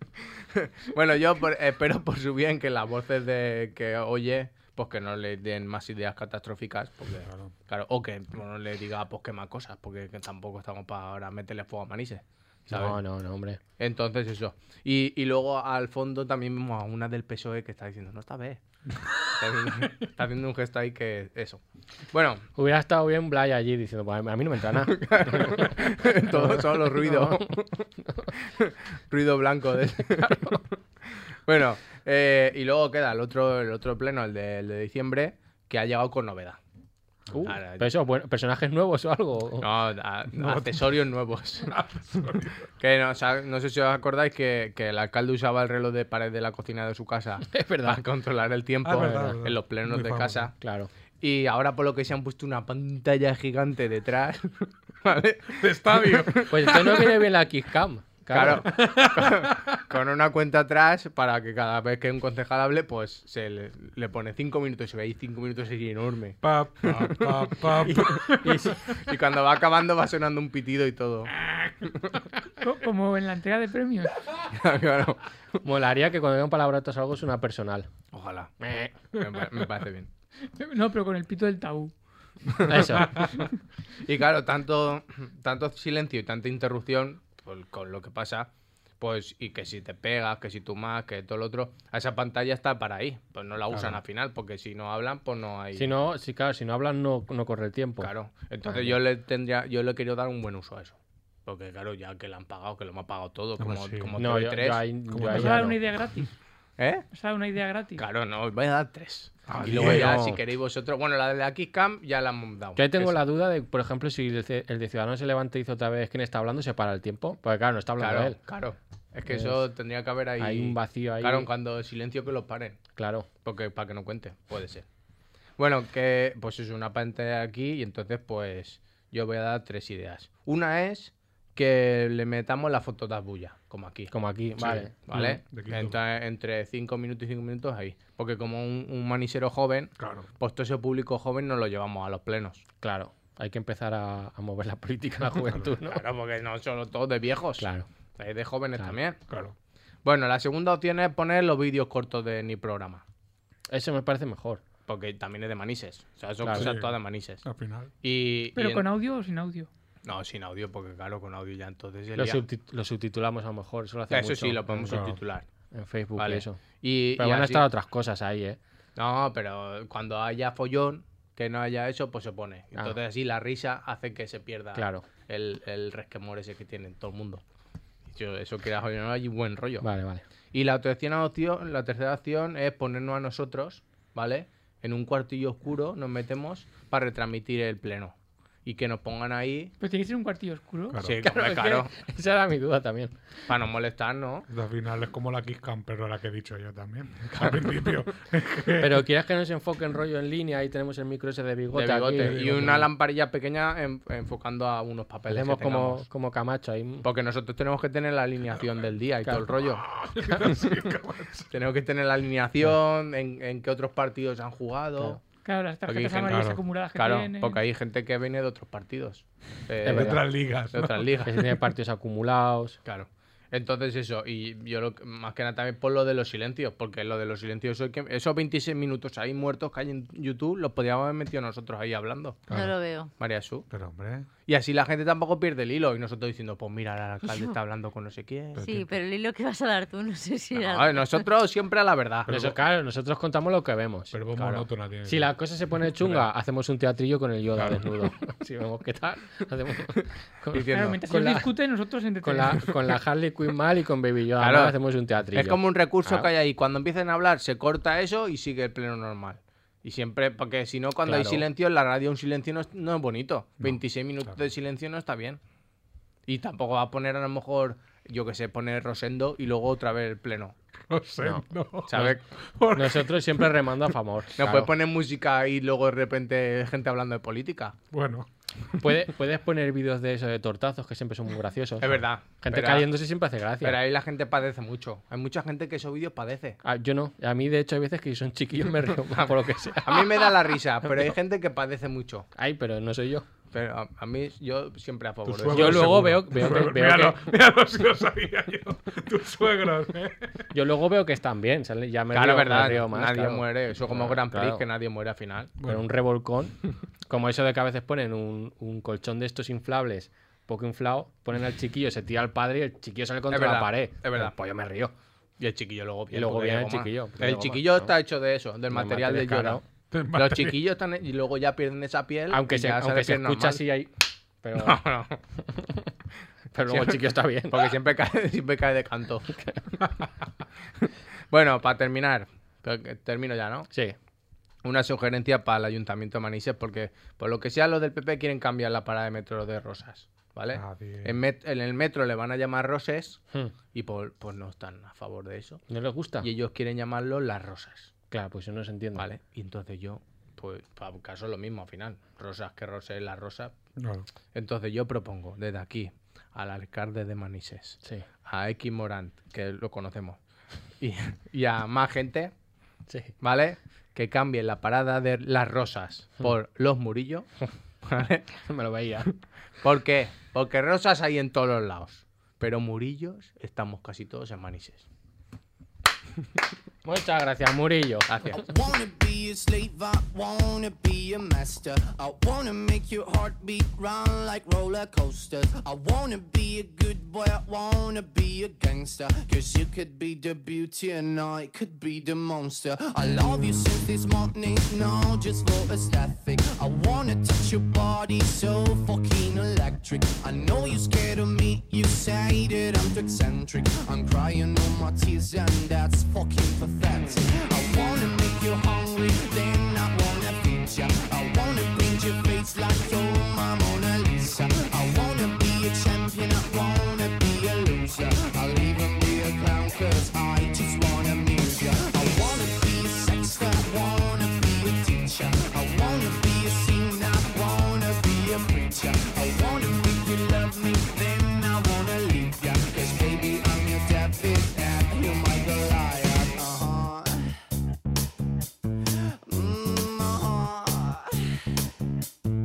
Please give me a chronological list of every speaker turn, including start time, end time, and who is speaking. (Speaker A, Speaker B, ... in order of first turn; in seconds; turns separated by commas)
Speaker A: 0.6-13.0, Speaker B: 7.2-7.5, Speaker C: 12.7-13.6, Speaker A: 13.8-18.6, Speaker A: 19.4-21.6, Speaker A: 22.1-22.5, Speaker C: 22.6-28.3, Speaker A: 24.8-27.7, Speaker A: 28.4-30.7, Speaker A: 31.4-36.6, Speaker C: 37.3-39.7, Speaker A: 37.4-37.9, Speaker A: 39.6-41.7, Speaker B: 40.4-41.0, Speaker B: 41.6-42.7, Speaker A: 42.8-50.5, Speaker C: 47.5-48.0, Speaker B: 48.8-50.5, Speaker C: 49.0-49.4, Speaker C: 50.6-50.9, Speaker A: 51.2-57.1, Speaker B: 55.5-57.0, Speaker C: 56.5-58.7, Speaker A: 58.3-68.2, Speaker B: 58.5-59.8, Speaker B: 66.4-68.8, Speaker C: 67.8-68.8, Speaker A: 69.0-71.3, Speaker B: 71.4-71.9, Speaker D: 72.6-74.2, Speaker A: 74.5-75.2, Speaker C: 75.6-77.9, Speaker A: 78.1-78.5, Speaker C: 78.6-78.9, Speaker A: 79.1-80.1, Speaker D: 80.5-81.9, Speaker A: 82.5-83.3, Speaker C: 82.7-83.2, Speaker A: 84.0-95.9, Speaker B: 93.7-94.0, Speaker C: 95.8-98.1, Speaker A: 98.0-104.8, Speaker C: 98.7-99.0, Speaker B: 103.6-104.2, Speaker C: 104.2-105.8, Speaker B: 105.1-105.7, Speaker D: 105.3-106.3, Speaker A: 106.8-107.1, Speaker D: 107.1-108.0, Speaker A: 108.0-113.2, Speaker B: 109.5-110.2, Speaker C: 109.6-110.4, Speaker C: 112.8-118.4, Speaker A: 118.0-122.8, Speaker C: 119.3-119.6, Speaker C: 120.4-121.5, Speaker C: 123.0-123.3, Speaker A: 123.4-124.9, Speaker A: 125.6-142.6, Speaker C: 134.1-135.4, Speaker B: 134.6-136.0, Speaker B: 140.0-140.3, Speaker C: 142.8-146.0, Speaker A: 145.8-149.2, Speaker C: 147.6-147.9, Speaker B: 149.3-149.5, Speaker A: 150.0-153.0, Speaker C: 153.7-154.6, Speaker A: 154.9-157.4, Speaker C: 156.4-156.7, Speaker B: 156.5-157.9, Speaker A: 158.0-158.9, Speaker D: 158.6-159.7, Speaker A: 160.1-162.4, Speaker C: 162.2-165.0, Speaker A: 164.1-165.5, Speaker B: 164.8-165.2, Speaker C: 165.7-166.6, Speaker A: 166.2-167.7, Speaker C: 167.2-168.6, Speaker A: 169.0-177.4, Speaker C: 174.8-175.1, Speaker A: 178.1-179.9, Speaker C: 179.8-180.2, Speaker A: 180.5-189.7, Speaker D: 189.8-191.1, Speaker B: 190.9-191.2, Speaker A: 191.0-191.9, Speaker C: 191.2-193.1, Speaker A: 193.5-194.5, Speaker B: 194.5-199.1, Speaker C: 198.8-202.6, Speaker A: 201.7-206.1, Speaker B: 202.2-202.9, Speaker C: 205.3-207.1, Speaker A: 207.0-209.8, Speaker B: 209.6-211.5, Speaker A: 211.5-215.2, Speaker D: 215.4-217.6, Speaker A: 215.9-221.5, Speaker B: 216.2-216.6, Speaker C: 219.8-220.2, Speaker B: 219.8-221.3, Speaker C: 221.2-222.8, Speaker A: 222.8-232.4, Speaker B: 232.5-232.7, Speaker E: 232.5-233.1, Speaker A: 233.2-233.7, Speaker B: 233.7-234.3, Speaker A: 234.5-238.6, Speaker E: 237.2-237.6, Speaker B: 238.5-238.9, Speaker E: 238.6-241.3, Speaker A: 240.6-242.5, Speaker B: 242.3-242.6, Speaker C: 242.3-244.2, Speaker B: 244.1-246.3, Speaker A: 244.4-244.7, Speaker C: 245.1-251.5, Speaker B: 247.6-248.1, Speaker A: 250.5-251.1, Speaker D: 250.7-252.7, Speaker C: 252.2-256.3, Speaker A: 254.4-254.8, Speaker A: 255.3-265.4, Speaker C: 261.1-261.4, Speaker B: 263.6-264.4, Speaker A: 266.3-270.6, Speaker B: 270.9-273.9, Speaker C: 271.2-272.2, Speaker A: 271.9-272.2, Speaker C: 272.7-274.7, Speaker A: 274.4-277.8, Speaker B: 277.9-279.1, Speaker C: 278.8-283.8, Speaker A: 281.8-282.9, Speaker A: 283.6-286.6, Speaker C: 286.6-290.2, Speaker A: 289.2-292.3, Speaker C: 292.4-293.2, Speaker A: 293.5-296.1, Speaker B: 295.2-300.5, Speaker C: 295.5-297.2, Speaker C: 300.5-304.6, Speaker A: 302.1-305.5, Speaker C: 305.6-306.6, Speaker C: 307.1-314.9, Speaker A: 313.3-314.3, Speaker A: 315.4-319.6, Speaker C: 316.1-317.9, Speaker C: 318.7-319.6, Speaker B: 319.9-320.6, Speaker A: 320.1-323.6, Speaker C: 322.3-323.9, Speaker C: 324.4-324.8, Speaker A: 324.6-325.2, Speaker C: 325.6-325.8, Speaker C: 326.5-327.8, Speaker A: 326.7-329.3, Speaker C: 329.3-329.7, Speaker A: 330.8-333.7, Speaker A: 334.6-345.6, Speaker B: 340.5-341.2, Speaker C: 345.7-346.3, Speaker A: 346.2-347.9, Speaker C: 348.1-349.1, Speaker A: 349.0-353.5, Speaker B: 353.8-354.1, Speaker A: 354.3-360.2, Speaker A: 360.8-362.3, Speaker A: 363.2-367.3, Speaker A: 367.8-368.3, Speaker C: 368.4-369.1, Speaker A: 369.6-374.8, Speaker C: 376.9-378.1, Speaker A: 378.1-378.4, Speaker F: 378.4-437.3, Speaker F: 439.3-441.4